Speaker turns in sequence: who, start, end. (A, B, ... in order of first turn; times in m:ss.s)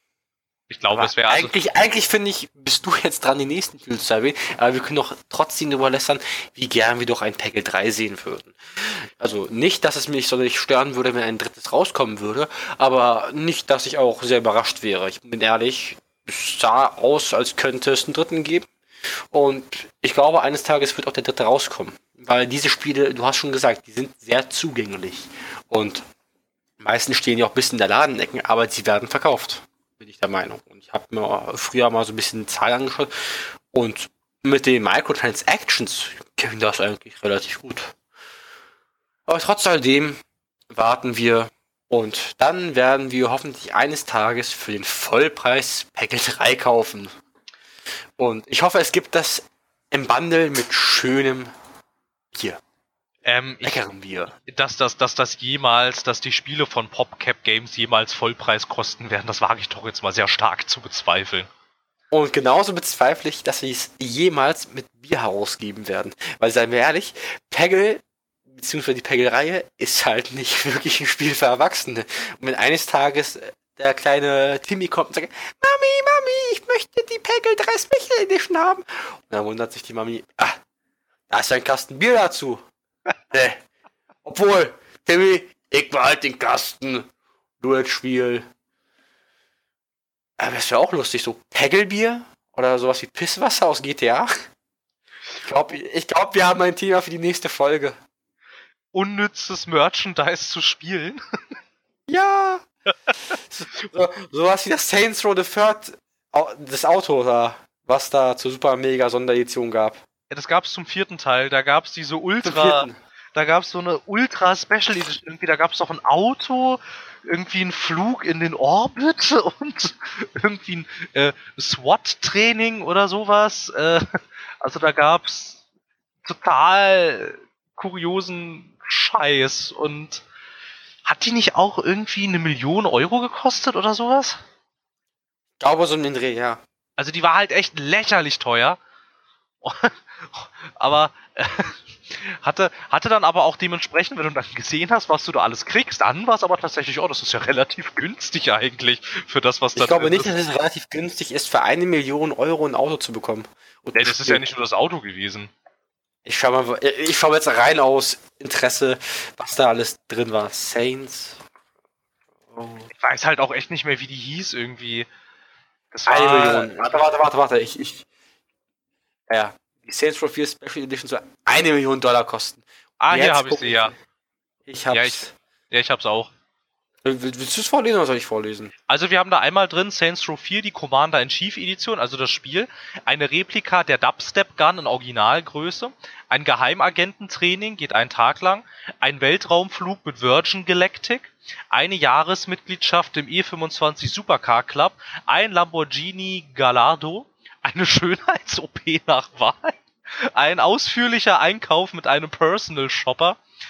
0:00.7-0:01.6 A
0:00.9-0:18.7 B
0:19.3-0:26.0 B
0:26.8-0:37.9 B
0:39.3-0:47.1 B
0:48.2-0:51.5 B
0:52.3-0:52.6 B
0:53.3-0:53.8 A
0:53.6-0:54.3 B
0:54.5-1:01.5 A
1:02.1-1:20.6 B
1:21.3-1:22.6 B
1:23.3-1:23.6 B
1:24.2-1:27.1 B
1:27.6-1:28.5 B
1:30.4-1:34.5 B
1:35.4-1:38.0 B
1:38.9-1:41.2 A
1:42.1-1:42.6 B
1:43.3-1:50.0 B
1:50.3-2:05.6 A
1:52.4-1:53.0 B
2:06.2-2:10.2 A
2:11.1-2:14.4 A
2:15.6-2:16.6 B
2:17.0-2:18.8 A
2:19.6-2:30.3 A
2:29.8-2:34.4 B
2:34.0-2:35.5 A
2:36.2-2:41.4 B
2:42.5-2:42.9 B
2:43.0-2:45.1 A
2:45.9-2:47.0 A
2:46.1-2:48.0 B
2:49.3-2:53.9 B
2:53.0-2:53.9 A
2:54.7-2:55.3 B
2:54.9-2:56.3 A
2:57.0-2:58.7 B
2:58.9-3:23.4 A